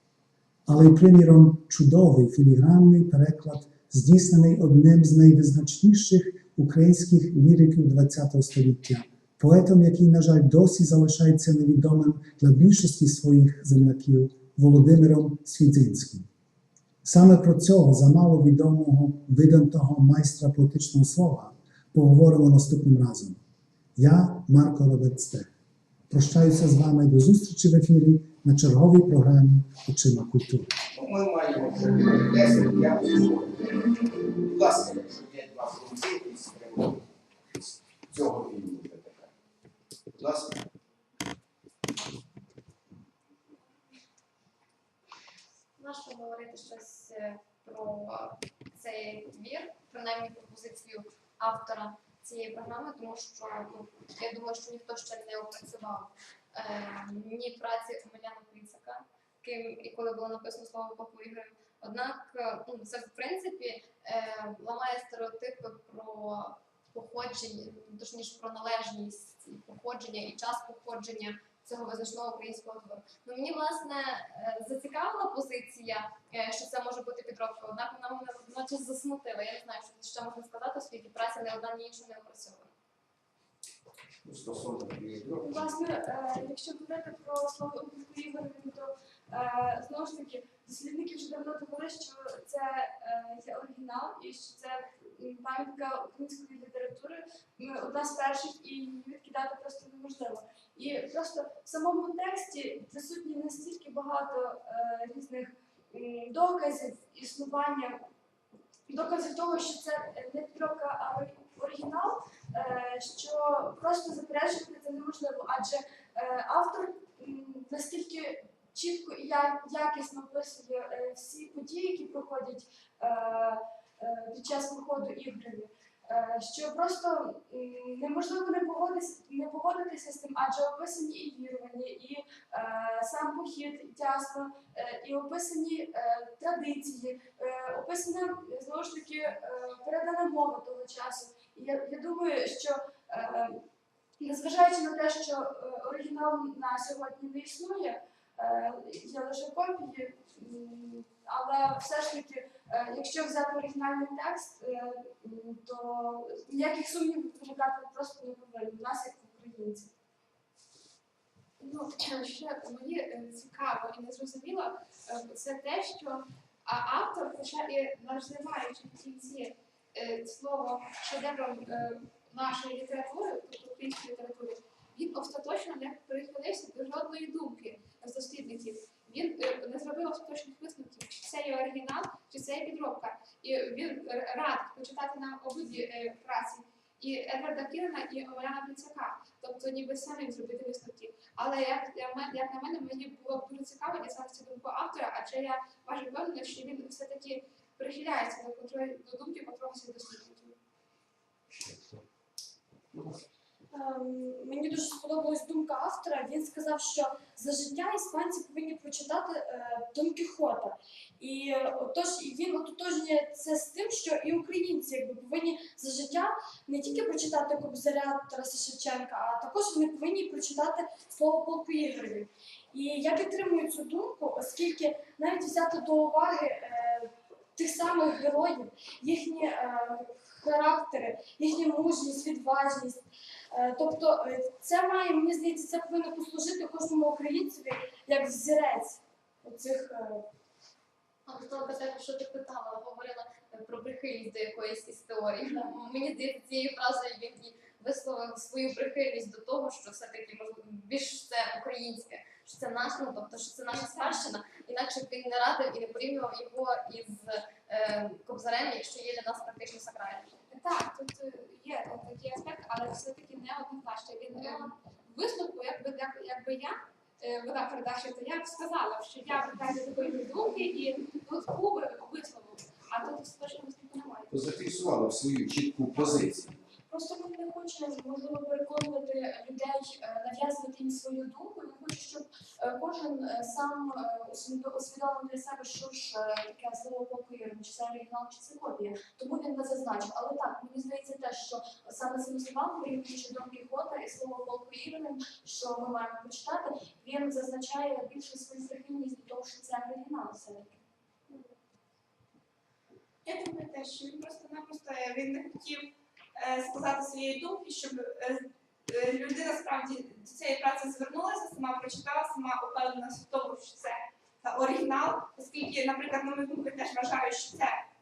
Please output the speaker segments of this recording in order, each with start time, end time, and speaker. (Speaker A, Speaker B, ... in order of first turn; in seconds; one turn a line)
Speaker A: 0.7-16.3
Speaker A: 17.0-23.4
Speaker A: 23.9-25.5
Speaker A: 26.1-30.7
Speaker B: 30.9-39.3
Speaker B: 40.2-40.6
Speaker C: 45.8-82.7
Speaker B: 84.2-85.7
Speaker D: 85.4-108.0
Speaker D: 108.9-143.6
Speaker D: 144.2-159.9
Speaker E: 161.6-200.6
Speaker B: 201.5-202.0
Speaker D: 203.7-240.2
Speaker C: 241.2-260.3
Speaker E: 253.7-254.2
Speaker E: 260.5-274.3
Speaker C: 264.3-264.7
Speaker B: 274.3-276.6
Speaker D: 276.9-300.8
Speaker F: 303.2-317.8